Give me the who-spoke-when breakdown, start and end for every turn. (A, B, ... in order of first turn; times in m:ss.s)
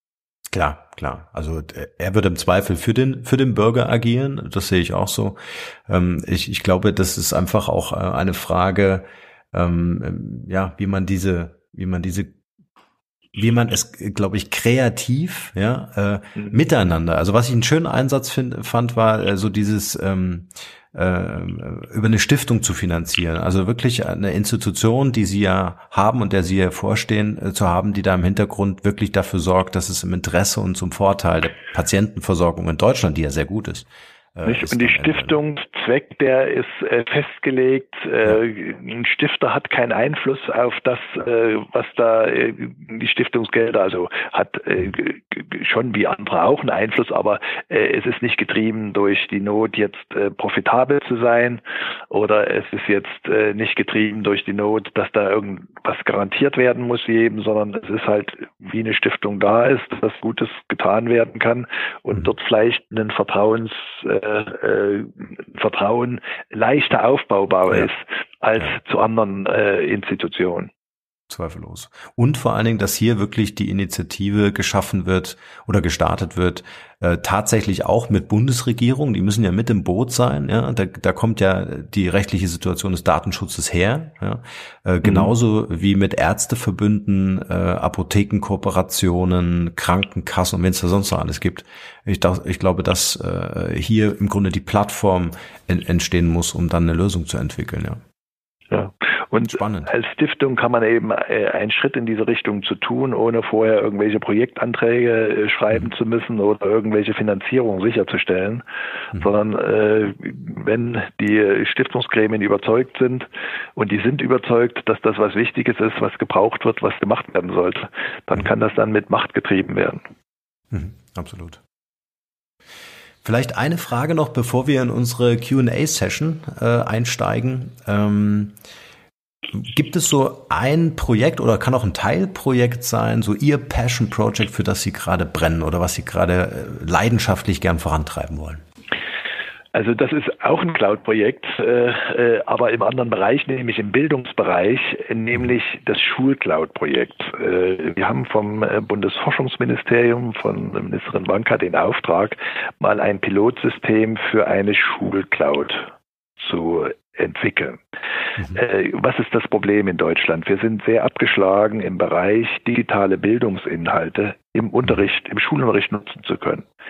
0:00.5-0:12.3 A
0:13.4-0:35.4 A
0:34.4-1:10.7 B
1:11.3-1:38.0 A
1:25.0-1:25.3 B
1:38.7-1:48.6 B
1:39.5-1:39.9 A
1:49.2-2:00.0 B
2:00.7-2:01.6 A
2:03.2-2:08.6 A
2:09.5-2:18.6 A
2:19.7-2:37.8 B
2:38.5-2:46.7 B